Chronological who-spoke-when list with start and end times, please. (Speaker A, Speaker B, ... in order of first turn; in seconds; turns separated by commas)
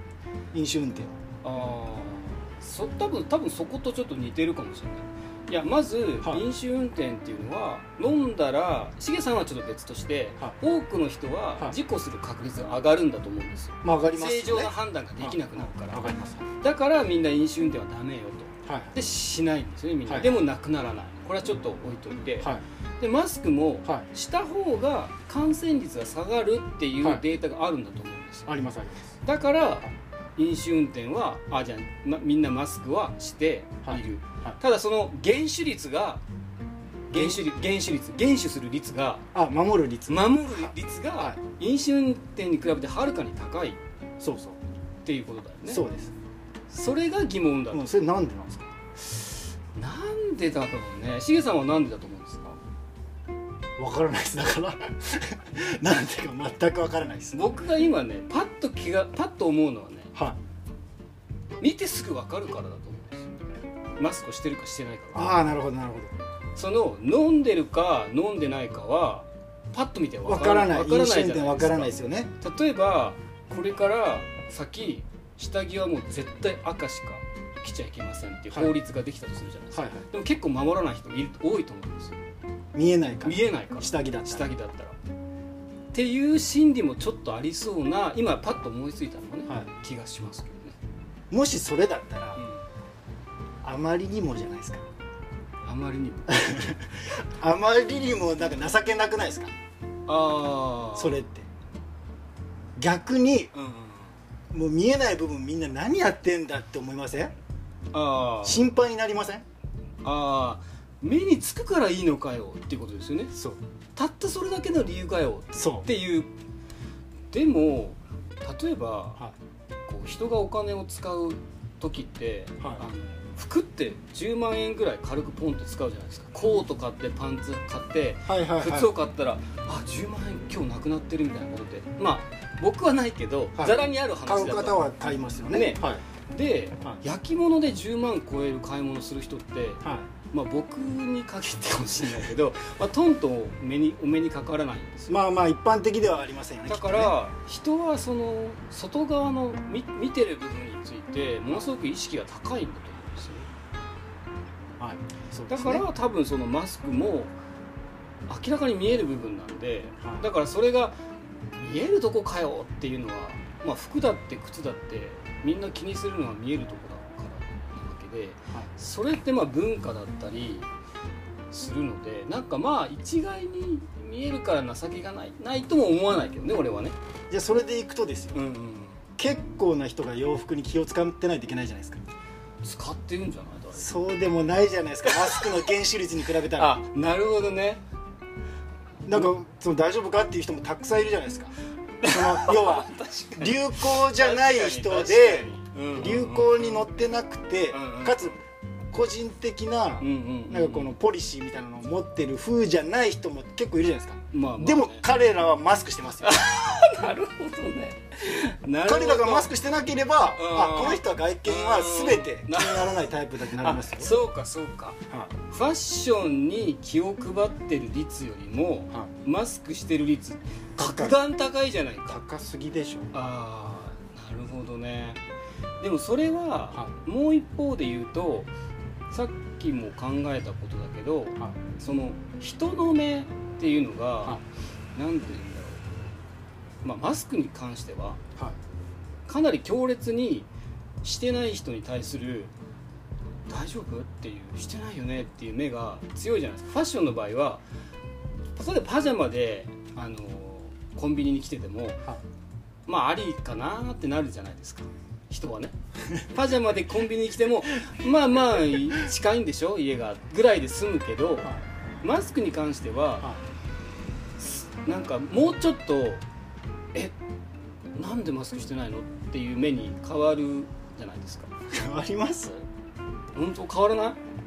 Speaker A: 0.5-1.1, Speaker B: 1.4-16.1, Speaker A: 6.2-6.5, Speaker A: 13.8-16.4, Speaker B: 16.6-28.6, Speaker A: 18.6-19.0, Speaker A: 20.1-20.4, Speaker A: 28.5-29.1, Speaker B: 29.2-36.2, Speaker A: 33.8-34.6, Speaker A: 37.1-37.4, Speaker B: 37.1-39.2, Speaker A: 39.3-41.4, Speaker B: 40.1-43.8, Speaker A: 44.2-44.6, Speaker B: 45.0-45.8, Speaker A: 45.7-46.1, Speaker B: 46.7-47.9, Speaker A: 47.7-48.7, Speaker B: 49.1-52.6, Speaker A: 53.8-57.4, Speaker B: 57.3-60.1, Speaker B: 61.6-63.3, Speaker B: 64.0-65.4, Speaker A: 65.1-66.1, Speaker B: 66.5-82.2, Speaker A: 70.2-72.3, Speaker A: 79.7-80.1, Speaker A: 82.7-84.5, Speaker B: 83.2-85.0, Speaker B: 85.9-90.7, Speaker A: 91.3-92.4, Speaker B: 92.4-92.6, Speaker A: 93.6-94.8, Speaker B: 95.6-96.6, Speaker A: 96.3-99.5, Speaker B: 100.0-101.2, Speaker A: 100.9-101.5, Speaker A: 102.8-103.5, Speaker B: 103.5-104.1, Speaker A: 104.5-107.3, Speaker B: 107.9-108.7, Speaker A: 108.4-109.4, Speaker B: 110.0-113.3, Speaker B: 113.9-116.3, Speaker A: 115.5-115.9, Speaker B: 117.3-119.2, Speaker B: 119.8-134.8, Speaker A: 122.6-122.8, Speaker A: 128.2-128.9, Speaker A: 133.6-136.0, Speaker B: 135.5-145.2, Speaker A: 139.8-140.1, Speaker A: 145.1-147.2, Speaker B: 146.7-153.5, Speaker A: 154.8-155.9, Speaker B: 155.5-157.3, Speaker B: 158.3-160.9, Speaker A: 160.0-160.3, Speaker B: 161.6-170.7, Speaker B: 171.5-176.9, Speaker A: 177.3-178.4, Speaker B: 178.3-179.0, Speaker A: 179.2-182.0, Speaker B: 182.6-183.9, Speaker A: 183.7-186.8, Speaker B: 185.0-185.5, Speaker B: 186.5-187.8, Speaker A: 189.1-191.5, Speaker B: 192.0-196.8, Speaker A: 192.0-198.4, Speaker B: 197.7-198.4, Speaker A: 198.9-206.4, Speaker B: 200.0-200.9, Speaker B: 204.3-205.0, Speaker B: 206.2-209.5, Speaker A: 208.8-214.2, Speaker B: 210.3-213.0, Speaker B: 213.6-222.2, Speaker A: 220.8-221.2, Speaker A: 222.1-223.1, Speaker B: 223.1-225.2, Speaker B: 225.8-228.5, Speaker B: 229.1-234.4, Speaker B: 234.9-235.8, Speaker B: 236.8-238.2, Speaker B: 239.2-240.5, Speaker B: 241.0-242.5, Speaker B: 243.5-247.6, Speaker B: 248.5-252.0, Speaker B: 252.8-263.3, Speaker B: 264.4-266.2, Speaker B: 267.9-271.5, Speaker A: 271.7-272.6, Speaker B: 273.3-274.2